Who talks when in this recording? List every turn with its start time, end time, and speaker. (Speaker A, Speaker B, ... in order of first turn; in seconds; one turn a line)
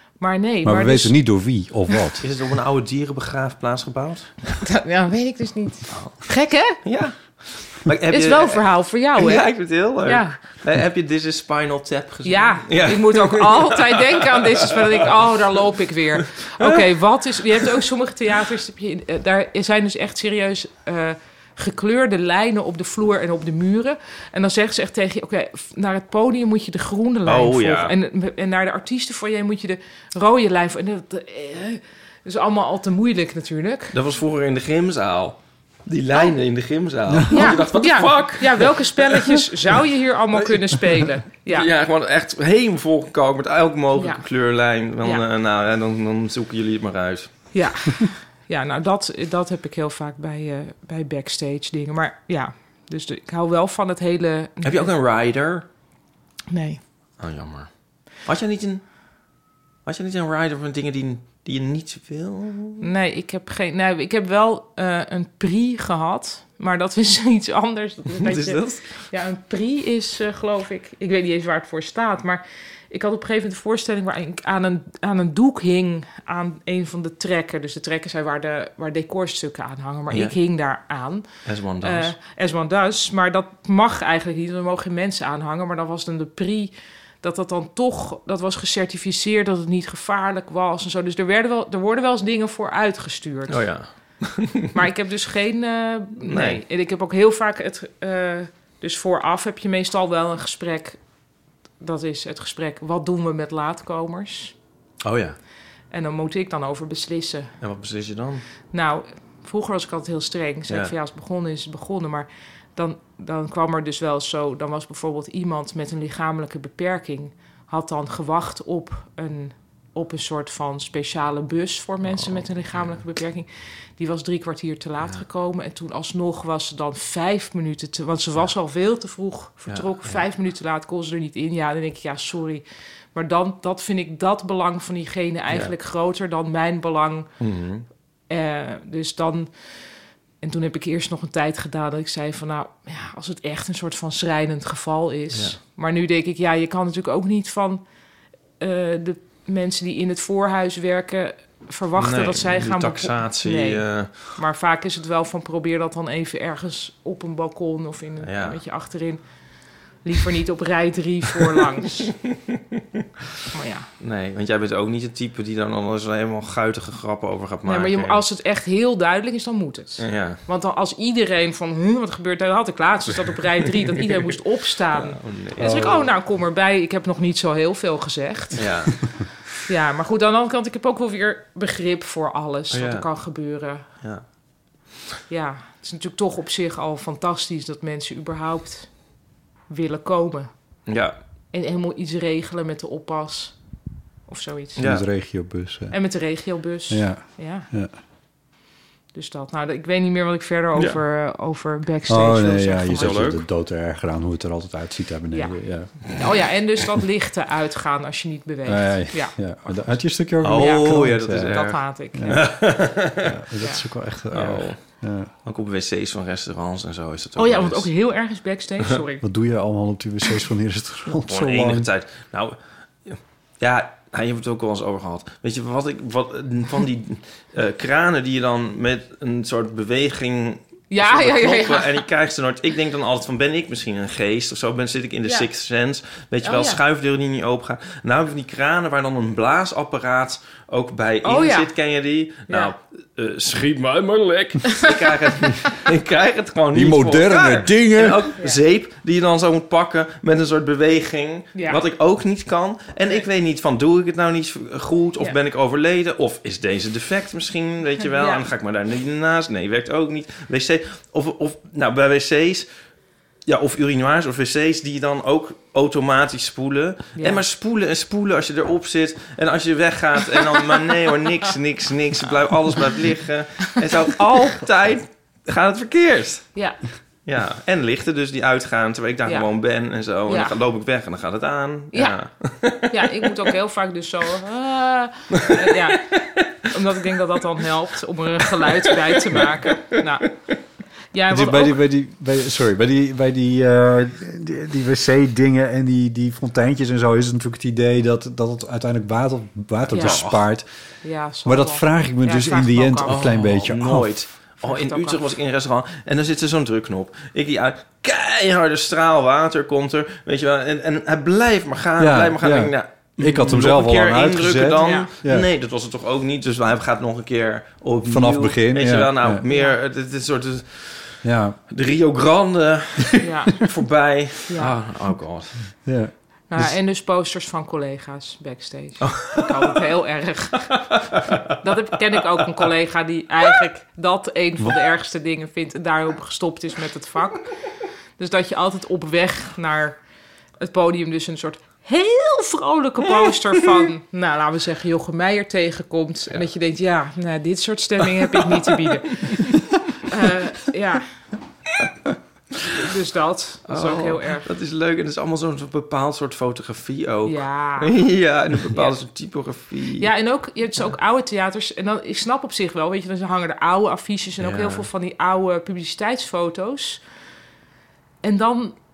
Speaker A: 0.2-1.2
Speaker B: 0.6-2.2
Speaker C: 2.2-4.4
Speaker A: 4.5-6.8
Speaker C: 5.9-6.3
Speaker C: 6.8-15.1
Speaker A: 8.1-9.5
Speaker A: 10.1-10.4
Speaker A: 12.2-34.0
Speaker C: 16.4-16.9
Speaker C: 27.2-27.9
Speaker C: 33.9-39.4
Speaker B: 37.1-37.5
Speaker A: 37.3-41.7
Speaker C: 41.5-47.5
Speaker A: 44.0-44.2
Speaker A: 47.5-54.9
Speaker C: 54.6-55.7
Speaker A: 56.5-56.8
Speaker C: 57.2-58.9
Speaker C: 59.9-62.9
Speaker A: 62.8-81.3
Speaker C: 68.2-69.1
Speaker C: 80.1-80.3
Speaker C: 81.5-82.1
Speaker A: 81.8-93.7
Speaker C: 93.5-94.7
Speaker A: 94.7-101.0
Speaker C: 96.2-96.6
Speaker A: 101.8-104.5
Speaker C: 105.0-105.4
Speaker A: 105.9-107.5
Speaker C: 107.6-108.4
Speaker A: 108.7-137.3
Speaker C: 122.2-123.0
Speaker C: 129.7-130.2
Speaker C: 137.4-137.8
Speaker A: 138.3-139.5
Speaker A: 140.4-147.8
Speaker C: 145.3-145.6
Speaker A: 148.6-159.2
Speaker C: 152.0-154.3
Speaker C: 158.2-158.6
Speaker A: 160.0-162.2
Speaker A: 163.5-163.9
Speaker C: 164.0-168.2
Speaker A: 167.7-179.0
Speaker C: 170.0-170.4
Speaker C: 174.9-176.1
Speaker B: 175.6-176.0
Speaker C: 178.6-179.2
Speaker A: 179.7-183.9
Speaker C: 182.7-183.1
Speaker A: 185.3-189.1
Speaker A: 189.7-190.5
Speaker C: 190.9-191.2
Speaker A: 191.5-193.6
Speaker A: 194.3-194.8
Speaker C: 194.8-195.1
Speaker B: 194.8-196.0
Speaker A: 195.9-197.7
Speaker B: 196.9-197.9
Speaker A: 199.1-203.3
Speaker B: 202.1-206.0
Speaker C: 202.9-203.4
Speaker A: 205.3-209.3
Speaker B: 208.7-211.6
Speaker C: 209.7-213.3
Speaker A: 210.5-212.7
Speaker B: 212.1-215.3
Speaker A: 213.6-213.9
Speaker C: 214.3-217.9
Speaker A: 217.4-219.2
Speaker B: 219.2-221.9
Speaker C: 221.2-262.7
Speaker A: 230.9-232.0
Speaker A: 236.4-236.8
Speaker A: 241.2-241.7
Speaker A: 242.5-242.7
Speaker B: 246.7-248.3
Speaker A: 251.6-251.8
Speaker A: 258.0-258.4
Speaker C: 263.5-276.5
Speaker A: 267.2-267.4
Speaker A: 276.6-276.8
Speaker C: 277.3-283.0
Speaker A: 280.3-280.6
Speaker A: 281.9-282.2
Speaker A: 282.8-286.1
Speaker C: 285.4-286.2
Speaker A: 286.6-290.3
Speaker A: 291.1-291.8
Speaker B: 291.3-300.7
Speaker C: 299.9-300.4
Speaker A: 299.9-300.2
Speaker A: 301.0-303.2
Speaker B: 301.4-304.1
Speaker C: 303.1-325.7
Speaker A: 304.6-305.2
Speaker B: 312.0-315.5
Speaker A: 314.8-315.1
Speaker B: 318.1-319.4
Speaker B: 321.2-321.6
Speaker A: 323.2-323.6
Speaker A: 324.5-324.8
Speaker B: 325.9-326.7
Speaker A: 326.5-330.7
Speaker C: 329.0-329.6
Speaker A: 331.6-337.5
Speaker A: 338.2-340.0
Speaker A: 340.6-351.1
Speaker A: 352.8-354.5
Speaker C: 353.7-360.1
Speaker A: 357.3-357.9
Speaker A: 360.0-367.0
Speaker C: 364.4-364.9
Speaker A: 368.2-368.8